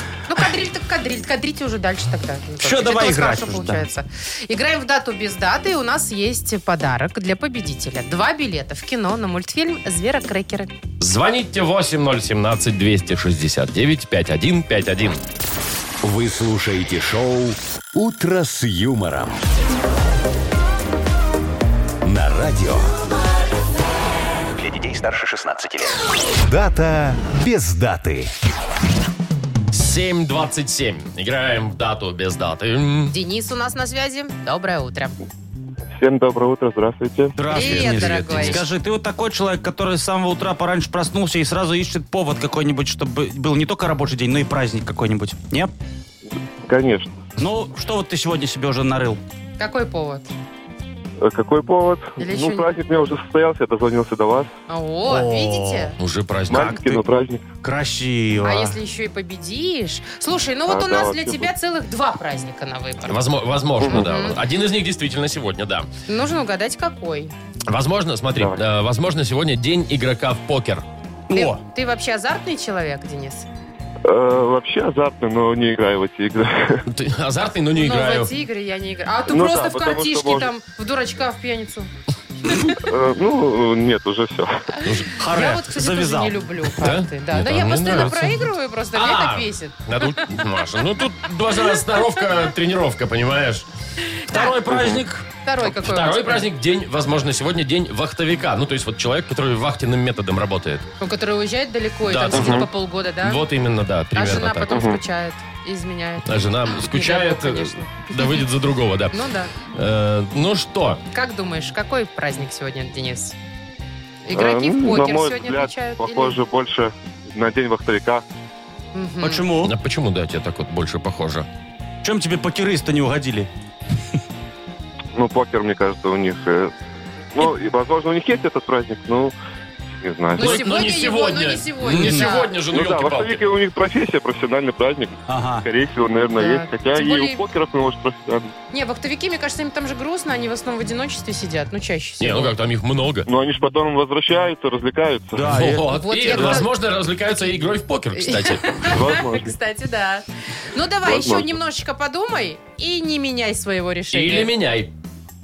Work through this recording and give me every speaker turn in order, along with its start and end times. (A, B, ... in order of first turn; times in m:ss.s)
0:00.3-0:10.7 A
0:02.6-0:03.8 B
0:11.0-0:15.2 C
0:16.0-0:19.4 D
0:22.0-0:23.0 D
0:24.6-0:28.3 D
0:29.7-0:33.2 C
0:33.1-0:35.1 A
0:36.0-0:37.3 E
0:37.4-0:45.7 B
0:37.5-0:38.6 C
0:37.5-0:38.6 A
0:46.6-0:47.2 E
0:47.4-0:49.2 B
0:49.6-0:50.3 A
0:51.2-0:54.5 E
0:52.2-0:52.7 A
0:54.7-0:56.0 A
0:55.1-0:55.9 B
0:56.0-0:56.8 C
0:56.5-0:57.0 B
0:56.5-0:57.4 E
0:57.6-0:58.8 B
0:58.4-1:03.2 A
1:00.7-1:01.5 E
1:03.0-1:05.9 C
1:03.9-1:04.4 A
1:06.1-1:07.3 A
1:07.7-1:10.8 C
1:11.3-1:11.6 B
1:11.3-1:13.4 A
1:14.0-1:16.8 E
1:16.9-1:18.3 C
1:17.7-1:21.9 A
1:19.3-1:20.5 E
1:22.8-1:24.6 E
1:24.7-1:30.2 A
1:24.8-1:25.1 C
1:25.1-1:26.4 B
1:26.8-1:33.6 C
1:34.3-1:35.2 B
1:34.3-1:34.6 A
1:35.4-1:36.5 A
1:35.6-1:40.9 C
1:41.0-1:43.4 A
1:42.0-1:42.7 C
1:42.3-1:42.6 E
1:43.2-1:44.9 C
1:44.1-1:48.4 A
1:44.7-1:45.0 E
1:46.2-1:51.0 C
1:49.1-1:49.5 A
1:51.1-1:53.3 A
1:54.2-1:56.4 A
1:54.3-1:58.2 E
1:58.9-1:59.5 A
1:59.2-1:59.7 B
1:59.6-2:01.5 C
2:02.0-2:03.5 B
2:05.2-2:06.7 E
2:07.3-2:09.3 E
2:10.0-2:10.6 E
2:10.4-2:12.5 A
2:10.4-2:13.4 C
2:11.8-2:12.3 B
2:12.7-2:18.5 E
2:15.3-2:15.6 B
2:16.4-2:17.4 A
2:18.7-2:22.5 A
2:22.2-2:23.3 C
2:23.3-2:25.6 E
2:25.3-2:26.6 B
2:25.5-2:28.6 C
2:25.8-2:26.7 A
2:28.2-2:34.5 A
2:28.9-2:29.5 E
2:31.0-2:31.5 E
2:34.1-2:34.9 C